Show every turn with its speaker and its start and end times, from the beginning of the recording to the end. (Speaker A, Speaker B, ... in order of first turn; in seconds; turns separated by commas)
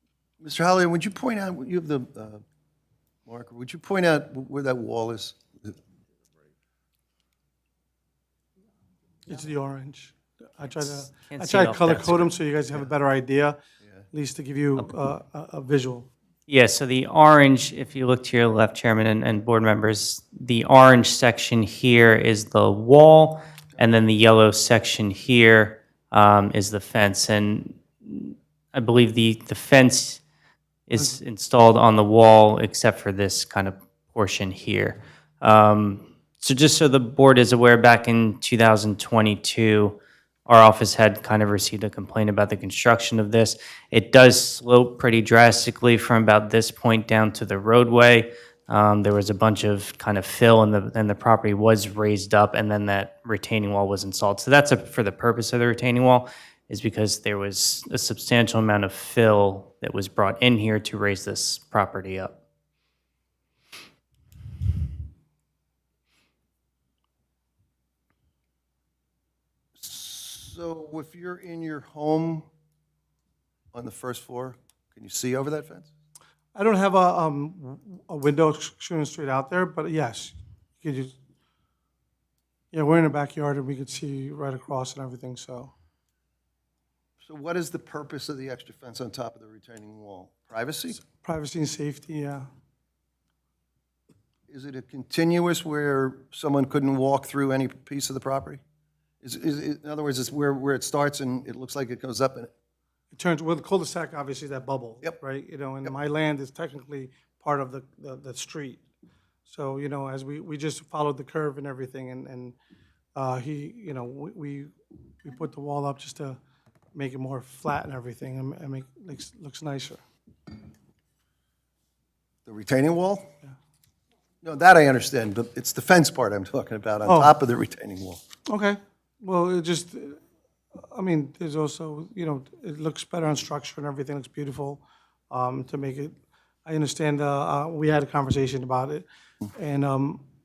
Speaker A: 0.4-2.4, Speaker A: 3.2-5.7, Speaker B: 9.2-10.1, Speaker C: 10.6-12.3, Speaker B: 10.6-13.6, Speaker B: 14.1-16.1, Speaker C: 16.5-30.2, Speaker C: 30.9-62.4, Speaker A: 69.8-72.5, Speaker A: 73.7-75.9, Speaker B: 76.5-81.1, Speaker B: 82.7-85.7, Speaker A: 87.2-91.0, Speaker B: 91.2-92.5, Speaker A: 94.5-98.6, Speaker A: 99.2-102.5, Speaker B: 103.1-108.8, Speaker B: 109.5-112.5, Speaker B: 113.1-114.7, Speaker B: 115.2-116.4, Speaker B: 116.9-120.0, Speaker A: 122.5-123.3, Speaker A: 124.4-128.2, Speaker B: 127.0-127.3, Speaker B: 128.5-130.2, Speaker B: 130.9-140.2